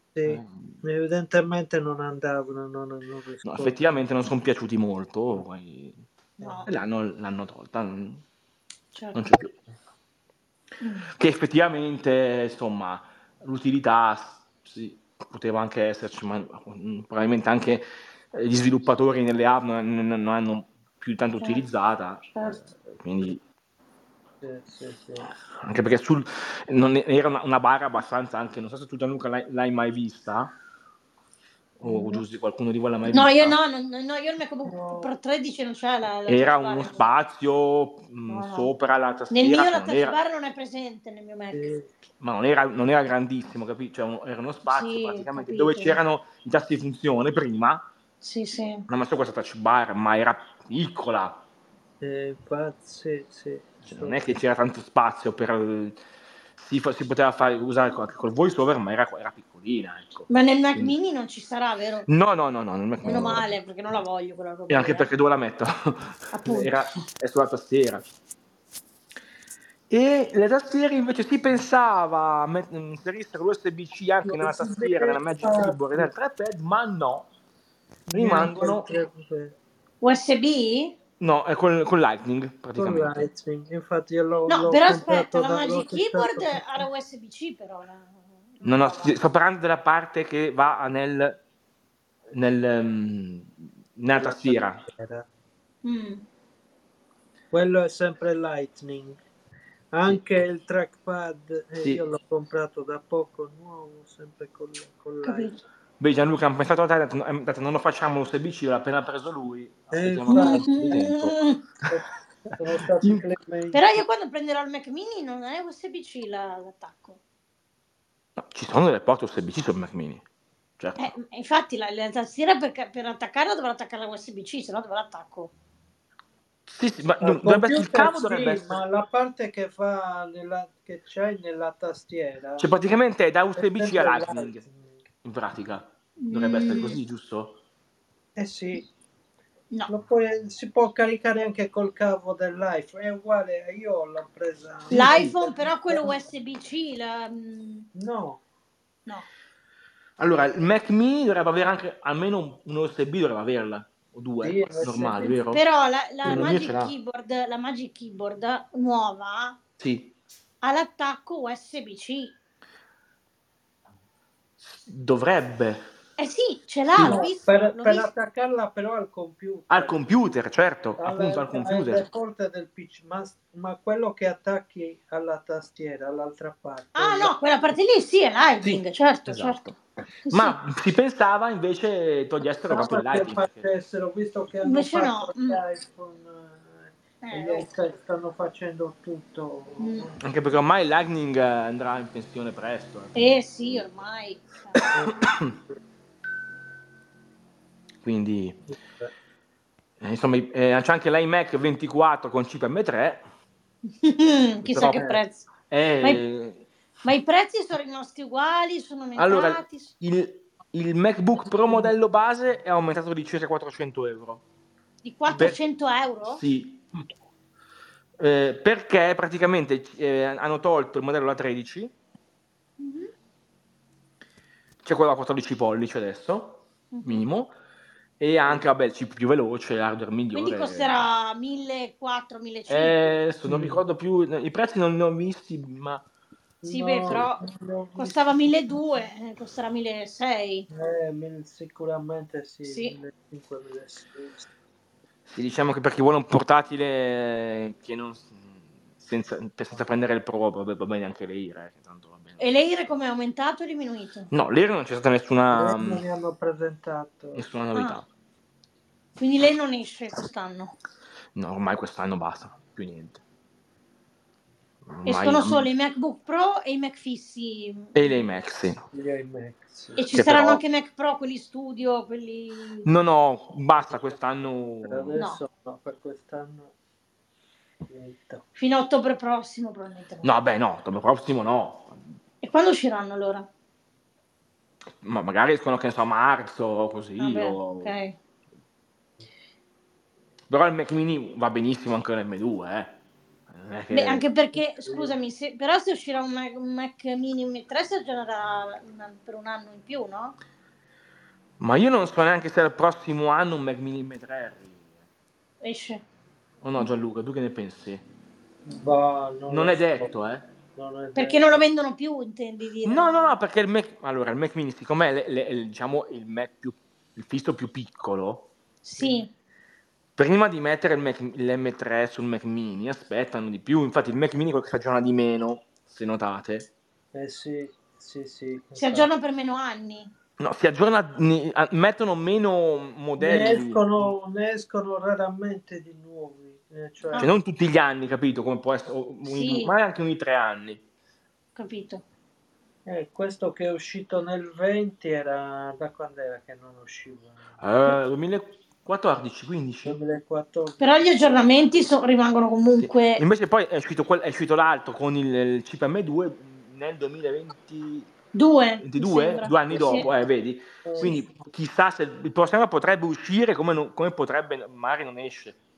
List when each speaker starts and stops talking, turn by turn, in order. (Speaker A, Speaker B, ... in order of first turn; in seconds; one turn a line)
Speaker A: 0.1-3.8
Speaker B: 0.2-0.8
Speaker B: 3.4-6.0
Speaker C: 6.4-6.7
Speaker A: 6.4-6.7
Speaker B: 6.7-8.2
Speaker C: 8.9-9.2
Speaker B: 9.1-9.5
Speaker C: 10.8-11.1
Speaker B: 11.2-23.4
Speaker C: 21.4-21.6
Speaker C: 22.3-22.6
Speaker A: 24.4-25.3
Speaker B: 25.6-30.5
Speaker B: 31.8-33.6
Speaker A: 31.9-32.1
Speaker C: 33.1-37.0
Speaker A: 34.7-35.1
Speaker B: 36.3-40.1
Speaker C: 38.3-38.7
Speaker C: 39.3-41.7
Speaker A: 41.5-41.9
Speaker B: 42.2-47.8
Speaker C: 44.7-46.0
Speaker C: 48.2-48.9
Speaker B: 48.9-51.4
Speaker A: 52.0-54.4
Speaker B: 53.9-56.0
Speaker B: 56.6-60.9
Speaker C: 60.3-62.1
Speaker B: 62.1-63.5
Speaker C: 63.0-65.1
Speaker B: 64.7-68.0
Speaker C: 66.3-66.8
Speaker B: 69.9-77.3
Speaker A: 74.2-76.1
Speaker A: 78.1-79.5
Speaker B: 78.1-78.9
Speaker C: 80.0-81.0
Speaker B: 81.2-83.3
Speaker A: 82.8-86.9
Speaker C: 84.5-89.2
Speaker B: 88.6-91.4
Speaker B: 92.3-94.8
Speaker A: 94.1-95.2
Speaker C: 95.8-96.2
Speaker A: 97.5-99.2
Speaker A: 99.9-105.5
Speaker C: 105.2-105.6
Speaker B: 106.0-112.0
Speaker A: 109.9-111.1
Speaker C: 110.3-111.6
Speaker A: 111.9-113.8
Speaker C: 113.7-117.2
Speaker B: 118.4-120.2
Speaker B: 120.8-121.1
Speaker C: 121.0-125.5
Speaker B: 126.7-128.8
Speaker A: 127.2-132.7
Speaker B: 132.6-134.6
Speaker A: 133.6-134.9
Speaker B: 135.2-137.6
Speaker C: 136.2-137.0
Speaker A: 138.3-138.9
Speaker A: 139.9-146.1
Speaker B: 144.9-145.3
Speaker C: 144.9-147.9
Speaker A: 147.9-148.4
Speaker B: 150.2-155.6
Speaker A: 154.4-155.4
Speaker C: 155.5-159.6
Speaker B: 156.2-156.9
Speaker A: 156.3-156.5
Speaker B: 159.8-160.1
Speaker C: 160.6-162.3
Speaker B: 164.6-165.8
Speaker C: 166.2-168.1
Speaker B: 166.9-167.2
Speaker A: 167.0-170.0
Speaker B: 169.7-172.1
Speaker A: 171.0-177.3
Speaker C: 176.9-179.6
Speaker B: 178.6-179.8
Speaker C: 180.2-180.6
Speaker B: 180.3-183.7
Speaker A: 182.7-190.2
Speaker C: 184.6-185.6
Speaker C: 187.2-187.7
Speaker C: 189.8-190.1
Speaker B: 190.2-193.8
Speaker C: 193.1-194.8
Speaker B: 194.8-195.5
Speaker A: 194.9-195.3
Speaker B: 198.0-198.6
Speaker A: 198.7-199.1
Speaker B: 200.0-203.2
Speaker C: 204.0-205.5
Speaker B: 204.6-205.1
Speaker A: 204.9-205.2
Speaker B: 205.7-206.6
Speaker C: 207.0-209.9
Speaker B: 209.2-214.4
Speaker C: 215.0-216.4
Speaker B: 216.3-216.8
Speaker B: 218.2-221.9
Speaker C: 222.8-223.1
Speaker B: 224.8-227.5
Speaker C: 226.9-227.2
Speaker B: 228.2-231.0
Speaker C: 230.3-233.1
Speaker B: 232.7-236.0
Speaker A: 233.5-233.8
Speaker A: 236.6-238.8
Speaker C: 236.6-237.4
Speaker C: 238.0-240.7
Speaker A: 240.7-244.5
Speaker C: 242.6-243.0
Speaker B: 245.3-252.4
Speaker C: 252.4-254.3
Speaker B: 254.3-256.0
Speaker A: 255.5-257.4
Speaker B: 257.3-258.1
Speaker C: 257.7-258.0
Speaker C: 259.2-260.7
Speaker B: 261.3-263.2
Speaker B: 264.9-265.7
Speaker C: 265.1-267.9
Speaker B: 267.9-268.9
Speaker A: 268.9-270.0
Speaker C: 269.9-272.9
Speaker B: 270.1-270.6
Speaker B: 272.8-275.2
Speaker A: 274.8-276.7
Speaker C: 275.1-275.4
Speaker A: 277.9-278.4
Speaker C: 278.6-280.3
Speaker B: 280.2-282.0
Speaker C: 282.4-283.5
Speaker B: 285.0-287.9
Speaker C: 287.2-288.1
Speaker B: 290.5-292.9
Speaker B: 293.5-294.2
Speaker C: 293.9-300.4
Speaker A: 294.5-295.1
Speaker B: 301.6-304.8
Speaker C: 305.6-306.0
Speaker B: 306.6-308.0
Speaker A: 308.6-310.1
Speaker B: 309.5-310.5
Speaker A: 310.8-311.6
Speaker C: 311.1-313.4
Speaker B: 312.8-318.5
Speaker C: 318.8-319.3
Speaker B: 320.1-326.7
Speaker A: 327.1-329.1
Speaker C: 328.8-330.1
Speaker B: 330.4-334.1
Speaker A: 333.2-337.3
Speaker B: 337.1-340.8
Speaker C: 339.2-339.7
Speaker C: 341.6-342.0
Speaker A: 342.9-347.4
Speaker B: 347.6-350.0
Speaker A: 349.8-351.0
Speaker C: 350.8-353.2
Speaker B: 352.8-358.1
Speaker C: 358.3-360.1
Speaker B: 358.8-365.6
Speaker A: 359.7-360.0
Speaker A: 360.8-361.5